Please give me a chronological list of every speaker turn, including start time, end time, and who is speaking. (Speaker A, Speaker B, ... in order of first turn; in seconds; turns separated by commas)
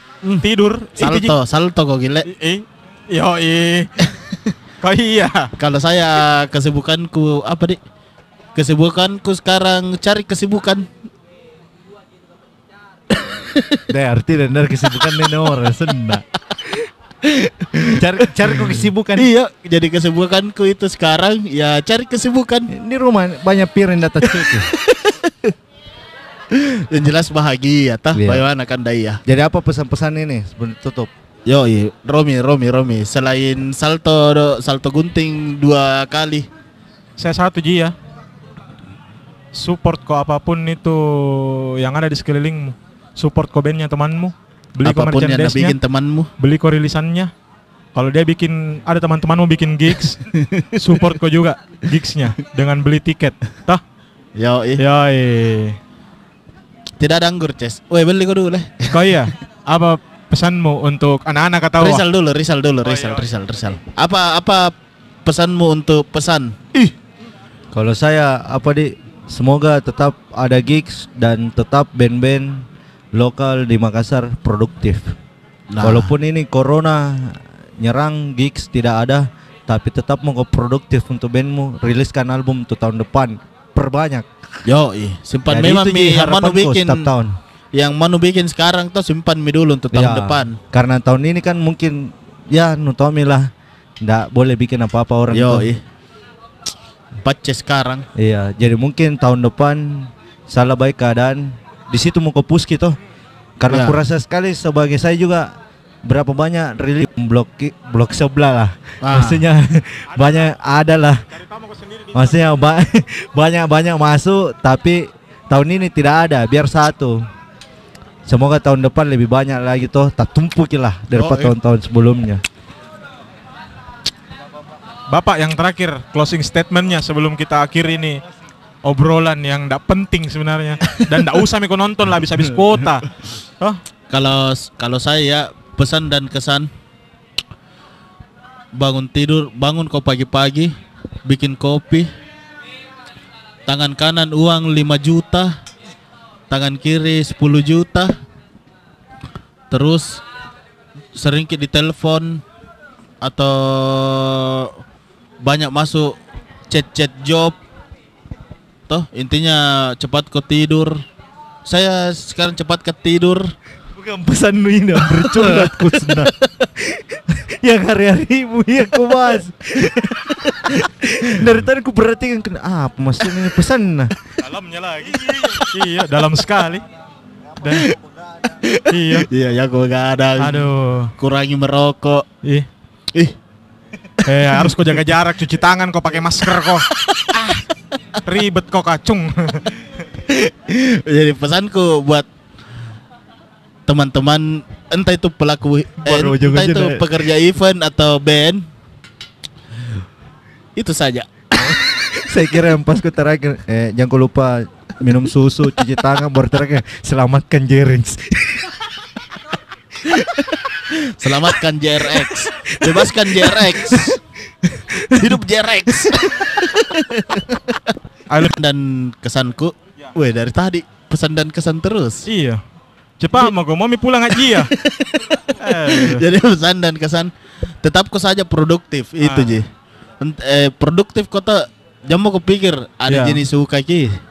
Speaker A: 0.4-1.3, Speaker B: 1.0-2.3, Speaker A: 2.3-3.9, Speaker B: 4.0-4.5, Speaker A: 4.8-5.5, Speaker B: 5.6-7.8, Speaker B: 8.6-10.9, Speaker B: 13.1-13.8, Speaker C: 13.9-16.2, Speaker B: 17.2-22.7, Speaker C: 17.9-19.3, Speaker C: 22.7-24.7, Speaker B: 24.3-25.5, Speaker B: 26.5-29.2, Speaker C: 28.1-28.4, Speaker C: 29.3-31.1, Speaker B: 31.5-36.5, Speaker A: 37.2-37.9, Speaker A: 39.5-45.8, Speaker B: 44.8-46.3, Speaker A: 46.4-47.3, Speaker A: 48.0-50.2, Speaker B: 50.3-51.0, Speaker A: 50.8-53.8, Speaker B: 54.4-54.8, Speaker A: 54.8-55.8, Speaker B: 57.0-59.2, Speaker A: 58.9-62.0, Speaker B: 61.8-64.7, Speaker A: 62.8-63.3, Speaker B: 65.2-66.9, Speaker C: 67.7-75.2, Speaker B: 75.7-76.1, Speaker C: 75.8-84.3, Speaker B: 84.7-87.1, Speaker C: 85.5-87.3, Speaker B: 87.8-90.6, Speaker C: 89.9-93.5, Speaker C: 94.0-95.7, Speaker B: 95.3-95.8, Speaker B: 97.2-98.1, Speaker C: 98.2-103.0, Speaker C: 103.6-105.5, Speaker B: 103.7-104.0, Speaker C: 106.0-111.3, Speaker B: 109.0-109.4, Speaker A: 110.2-110.5, Speaker A: 111.3-112.4, Speaker C: 112.1-117.3, Speaker C: 118.3-122.4, Speaker B: 121.1-121.5, Speaker A: 125.1-128.2, Speaker A: 128.8-133.1, Speaker B: 134.1-136.7, Speaker B: 138.7-140.7, Speaker B: 141.2-142.1, Speaker B: 143.7-145.6, Speaker B: 146.5-148.1, Speaker B: 149.7-150.2, Speaker B: 151.2-152.4, Speaker B: 153.2-154.7, Speaker B: 155.4-156.2, Speaker B: 156.7-157.6, Speaker B: 158.9-161.0, Speaker B: 161.7-163.5, Speaker C: 163.9-174.1, Speaker B: 165.0-166.5, Speaker B: 169.8-170.4, Speaker A: 174.4-176.8, Speaker B: 175.3-175.7, Speaker A: 177.6-177.9, Speaker B: 177.7-182.3, Speaker A: 178.9-179.3, Speaker A: 180.4-181.1, Speaker A: 184.2-186.9, Speaker B: 184.4-184.9, Speaker B: 186.9-187.8, Speaker A: 188.2-189.7, Speaker B: 190.2-192.3, Speaker B: 193.9-198.7, Speaker C: 196.0-197.0, Speaker B: 200.8-202.1, Speaker C: 201.6-208.9, Speaker B: 210.1-214.2, Speaker C: 212.1-216.3, Speaker B: 215.0-222.3, Speaker A: 218.3-218.5, Speaker A: 222.3-222.6, Speaker A: 223.2-224.7, Speaker B: 224.3-227.3, Speaker A: 225.6-226.2, Speaker B: 227.8-229.7, Speaker A: 229.2-229.6, Speaker B: 230.2-234.1, Speaker A: 233.1-233.4